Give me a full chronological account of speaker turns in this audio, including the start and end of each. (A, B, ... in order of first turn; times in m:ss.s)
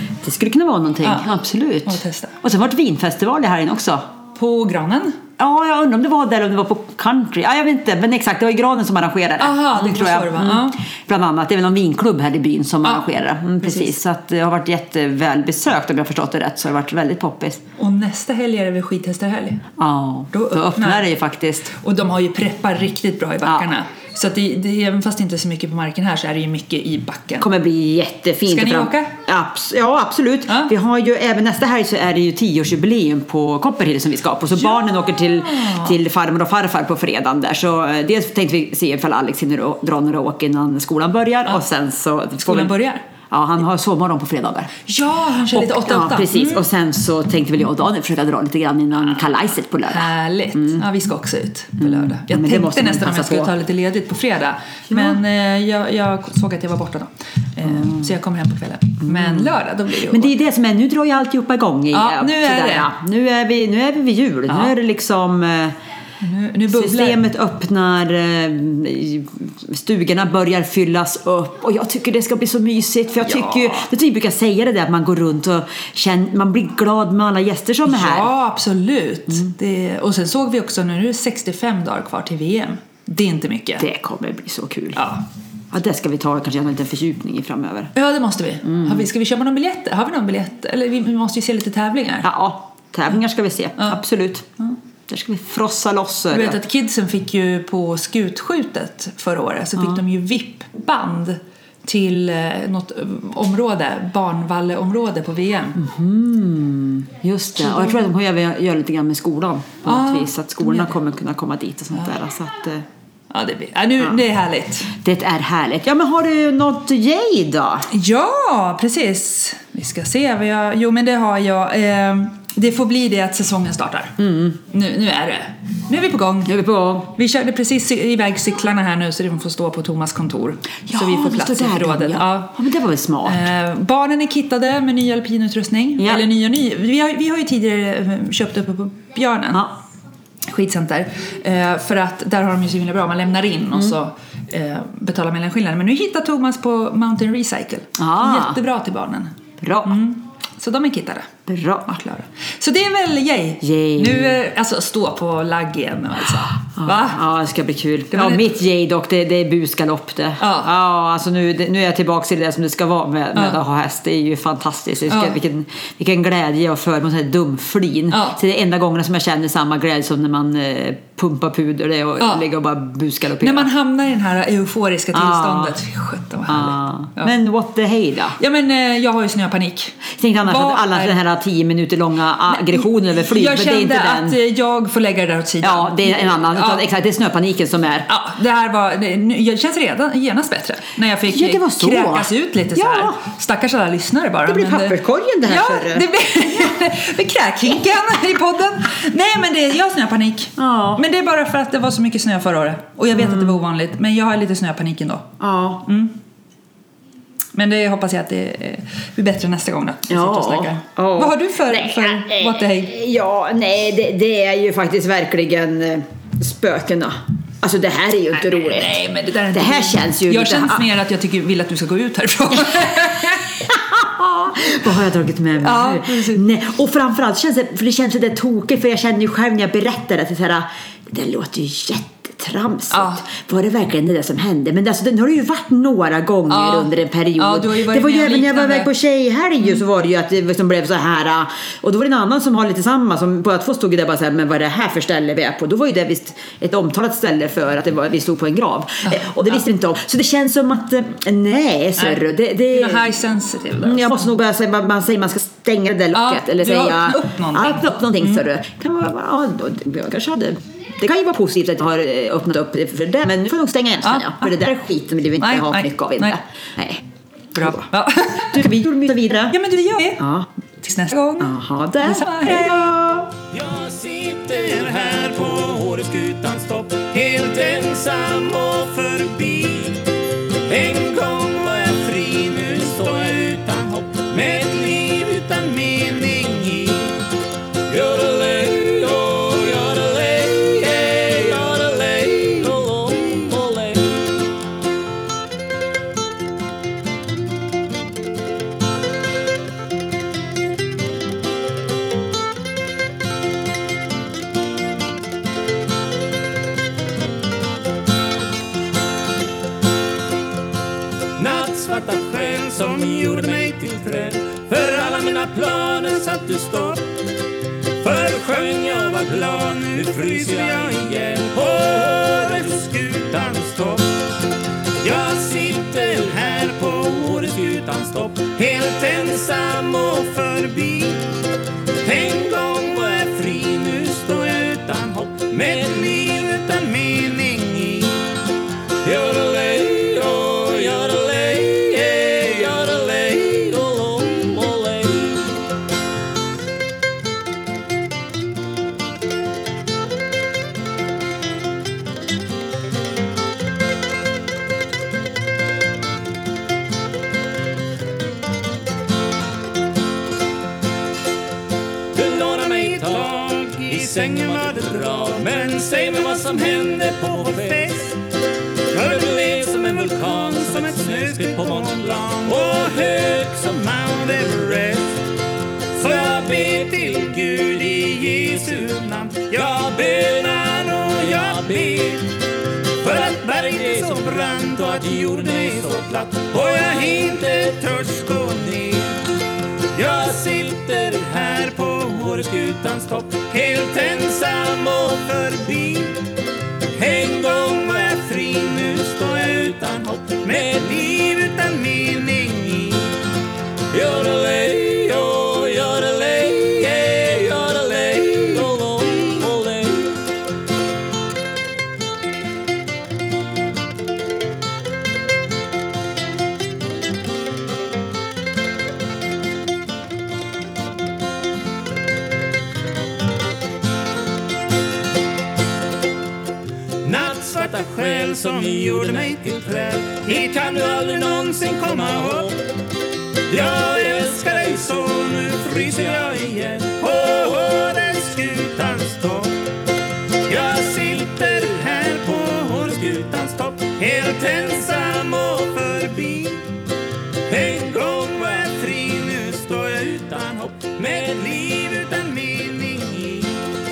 0:00.2-0:04.1 A
0:01.9-0:02.4 B
0:04.4-0:05.2 B
0:05.4-0:17.6 A
0:09.4-0:10.8 B
0:13.6-0:13.9 B
0:17.8-0:19.6 B
0:19.8-0:21.7 A
0:20.3-0:21.1 B
0:21.7-0:27.5 B
0:23.4-0:23.7 A
0:27.4-0:42.7 A
0:28.5-0:29.1 B
0:30.5-0:30.7 B
0:34.6-0:36.0 B
0:42.4-0:43.0 B
0:43.3-0:44.9 A
0:44.9-0:46.6 B
0:45.5-0:50.8 A
0:49.9-1:00.4 B
0:51.8-0:53.5 A
0:54.9-0:55.2 A
0:57.7-0:58.1 A
0:59.0-0:59.5 A
1:00.0-1:05.8 A
1:01.9-1:02.9 B
1:04.5-1:04.7 B
1:06.2-1:07.2 B
1:06.7-1:18.3 A
1:13.2-1:13.9 B
1:17.8-1:23.8 B
1:23.8-1:25.0 A
1:25.0-1:25.2 B
1:25.7-1:27.9 A
1:28.0-1:32.3 B
1:28.6-1:29.0 A
1:32.2-1:34.6 A
1:35.1-1:36.6 A
1:36.3-1:45.8 B
1:45.8-1:52.8 A
1:47.7-1:48.0 B
1:49.9-1:50.9 B
1:53.3-1:54.9 B
1:54.9-1:57.9 A
1:57.9-2:06.6 B
2:04.2-2:04.6 A
2:06.5-2:07.1 A
2:07.1-2:12.5 B
2:10.9-2:13.5 A
2:13.2-2:19.7 B
2:16.0-2:16.2 A
2:20.5-2:31.3 B
2:28.0-2:28.6 A
2:29.6-2:30.0 A
2:31.5-2:32.0 A
2:31.9-2:37.2 B
2:33.6-2:34.4 A
2:36.8-2:53.7 A
2:38.1-2:38.5 B
2:40.4-2:40.7 B
2:45.1-2:45.4 B
2:48.1-2:48.4 B
2:52.2-2:52.4 B
2:53.4-2:57.4 B
2:55.1-2:55.8 A
2:56.5-2:58.4 A
2:58.4-3:01.2 B
3:00.1-3:04.4 A
3:02.5-3:06.9 B
3:05.6-3:08.1 A
3:08.1-3:25.3 B
3:11.3-3:13.2 A
3:14.4-3:16.1 A
3:20.6-3:21.0 A
3:23.2-3:23.6 A
3:25.4-3:25.8 A
3:25.8-3:26.2 B
3:27.6-3:33.0 B
3:30.1-3:39.0 A
3:38.4-3:43.5 B
3:39.5-3:40.8 A
3:43.6-4:13.1 A
3:45.6-3:46.4 B
3:52.9-3:53.2 B
3:56.5-3:58.9 B
4:09.1-4:09.4 B
4:12.0-4:14.3 B
4:13.8-4:27.0 A
4:16.2-4:18.4 B
4:24.0-4:24.7 B
4:25.4-4:26.4 B
4:27.6-4:28.7 B
4:27.6-4:29.6 A
4:29.5-4:30.2 B
4:30.2-4:30.5 A
4:30.8-4:33.0 B
4:31.4-4:33.3 A
4:33.5-4:40.1 C
4:40.6-4:47.2 C
4:47.9-4:54.4 C
5:11.4-5:17.1 C
5:18.0-5:24.3 C
5:25.0-5:31.4 C
5:32.0-5:38.4 C
5:39.0-5:45.6 C
6:02.1-6:08.2 C
6:08.9-6:15.3 C
6:15.9-6:22.4 C
6:22.9-6:29.3 C
6:29.9-6:36.2 C
6:36.9-6:43.2 C
6:43.9-6:50.3 C
7:07.0-7:12.6 C
7:13.5-7:19.6 C
7:20.4-7:26.8 C
7:27.5-7:33.7 C